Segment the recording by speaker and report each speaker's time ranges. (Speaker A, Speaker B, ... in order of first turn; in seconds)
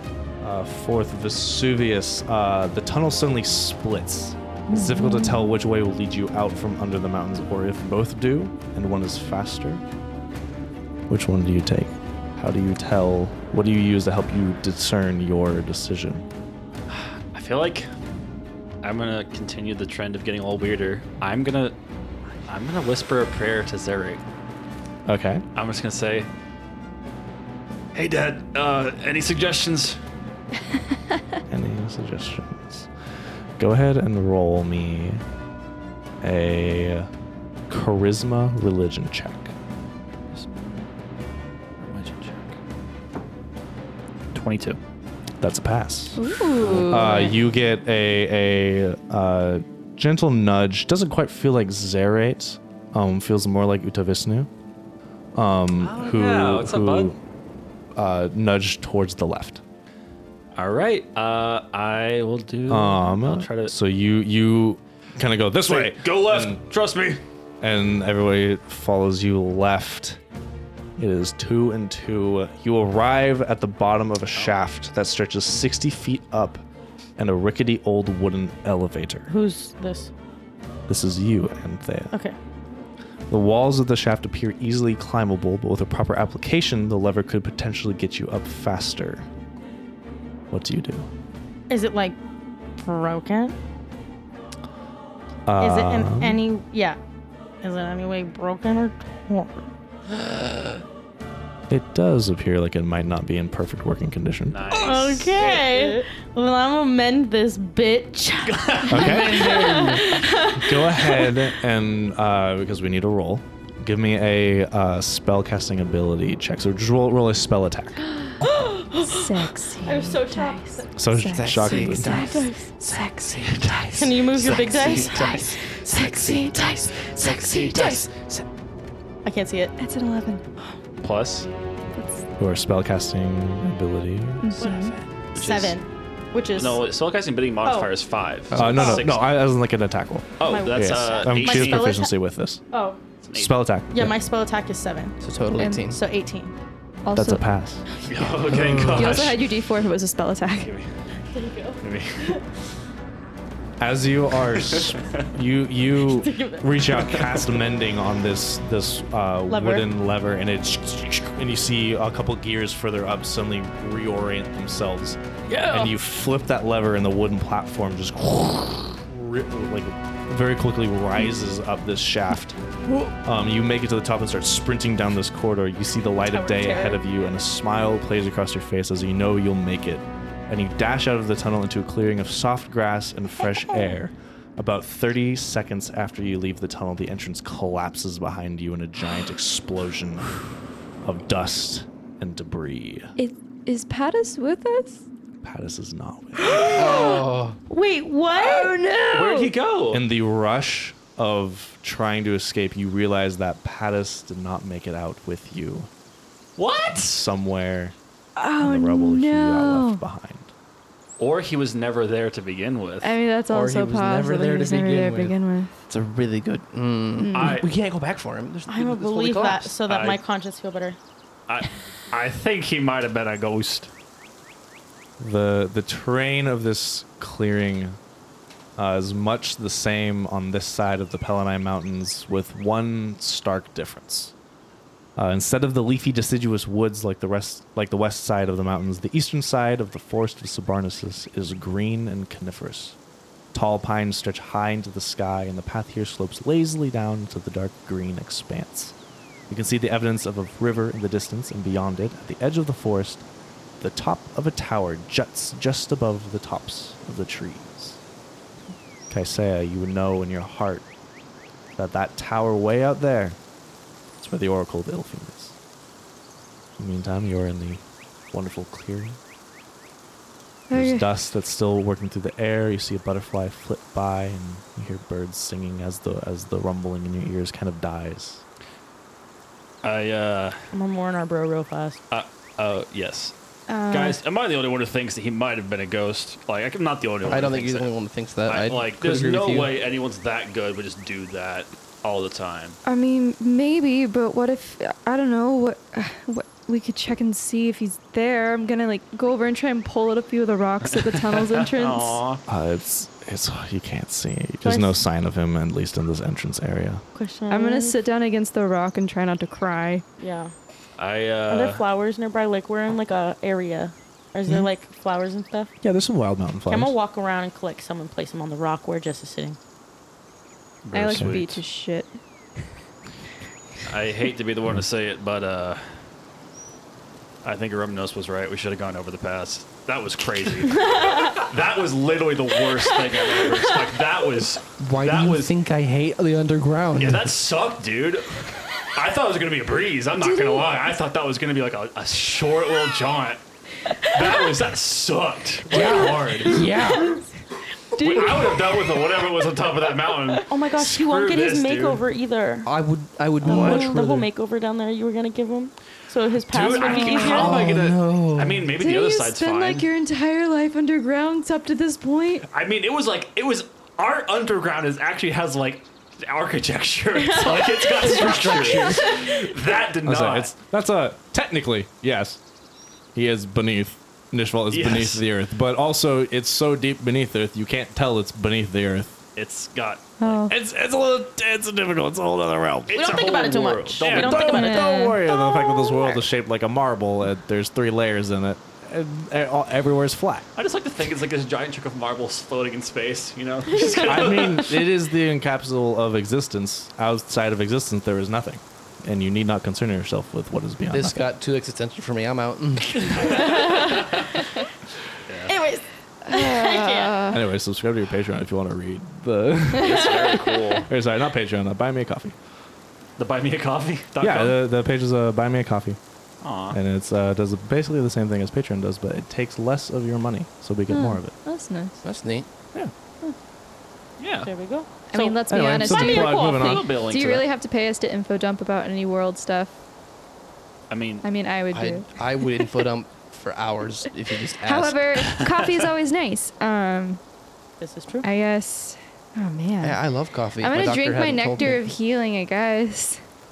Speaker A: 0.4-9.8, 11.1-16.2, 25.1-25.4, 31.5-32.9, 33.6-35.2, 36.2-37.1, 37.7-39.5, 45.4-54.5, 55.3-57.2, 58.0-59.6, 62.7-66.6, 67.6-70.2, 71.0-76.6, 77.2-79.3, 80.9-82.1, 83.3-89.3, 90.5-91.1, 95.5-96.4, 101.7-104.6, 108.9-109.4, 110.5-118.0, 121.0-122.3, 132.4-134.5, 138.5-142.6, 143.3-144.2, 147.1-147.8, 153.8-172.6, 173.2-190.4, 191.0-193.1, 195.4-196.7, 199.9-205.9, 206.9-207.9, 208.6-210.5, 225.2-228.0, 228.8-234.3, 235.2-243.0, 243.5-248.9, 249.5-253.2, 253.8-258.0, 259.1-260.9, 261.8-263.4, 264.2-265.6, 266.8-269.2, 270.7-278.4, 302.5-307.0, 315.8-316.9, 321.1-321.5, 368.4-369.0, 370.0-372.4, 373.1-379.2, 380.5-383.0, 384.0-390.5, 394.1-401.3, 407.3-410.1, 410.9-412.4, 414.2-416.0, 416.7-421.3, 425.5-426.9
Speaker B: 4.9-5.4, 46.1-47.4, 118.9-123.7, 125.7-128.1, 129.8-130.4, 131.9-132.2, 134.4-135.0, 145.6-145.8, 147.1-147.4, 148.9-150.7, 193.2-195.0, 198.3-199.5, 208.4-210.0, 213.0-215.7, 217.2-217.6, 270.7-271.1, 283.7-284.2, 292.8-302.2, 307.5-310.1, 320.9-322.2, 340.2-340.8, 345.7-346.6, 347.9-348.8, 353.4-354.0, 356.7-357.5, 358.8-362.5, 380.2-380.6, 384.4-386.1, 406.3-407.4, 420.9-422.0, 425.1-429.8, 431.2-432.7, 434.5-437.2, 438.2-440.0, 440.6-443.2
Speaker C: 16.9-17.9, 18.8-21.7, 22.4-24.2, 25.6-26.3, 27.9-30.0, 40.3-40.7, 41.8-42.6, 44.3-44.8, 46.6-47.1, 55.8-57.1, 60.5-63.7, 65.6-67.2, 104.5-105.7, 108.4-110.1, 123.4-128.1, 131.0-131.5, 135.3-135.8, 136.5-139.3, 140.4-141.9, 143.2-143.5, 148.1-149.4, 150.6-150.9, 151.8-152.4, 154.6-155.3, 199.1-200.0, 206.6-207.2, 211.2-213.2, 217.3-217.7, 219.9-220.2, 221.5-223.9, 279.8-280.7, 282.1-283.3, 283.9-287.9, 288.4-292.8, 300.9-302.4, 311.0-311.8, 320.8-321.6, 323.8-326.0, 327.4-335.5, 337.0-343.4, 344.1-346.5, 348.0-352.0, 356.5-359.9, 362.5-370.6, 374.7-375.2, 379.4-380.4, 382.9-384.6, 390.6-394.7, 405.2-405.5, 409.8-410.9, 413.2-414.6, 416.4-416.8, 424.2-424.5, 426.6-427.4, 430.9-431.2, 435.2-435.8
Speaker D: 79.3-80.1, 91.7-92.2, 92.8-93.5, 95.6-97.0, 97.6-99.7, 104.7-111.3, 118.4-120.9, 122.1-122.5, 123.9-125.7, 129.2-129.7, 134.6-136.8, 137.6-137.9, 140.4-142.1, 142.7-143.0, 143.9-145.2, 145.8-146.5, 151.3-152.4, 156.0-157.3, 159.5-159.9, 176.2-177.0, 196.4-198.9, 218.7-221.0, 280.7-282.0, 304.6-305.0, 307.1-307.9, 310.2-310.5, 311.5-315.7, 316.7-319.6, 346.5-347.2, 350.5-352.7, 353.4-357.7, 367.1-369.6, 382.9-385.1, 393.7-394.4, 403.2-404.1, 405.5-407.3, 424.4-426.9, 437.8-438.3
Speaker E: 100.3-100.6, 109.4-109.9, 121.2-122.5, 125.1-125.4, 127.2-128.3, 138.5-139.0, 145.2-146.0, 148.5-148.9, 196.7-197.6, 213.5-215.4, 215.9-219.8, 287.2-289.7, 334.8-337.3, 345.7-347.1, 352.6-354.3, 357.2-358.7, 400.9-403.6, 422.0-422.5, 431.7-435.2, 439.8-441.8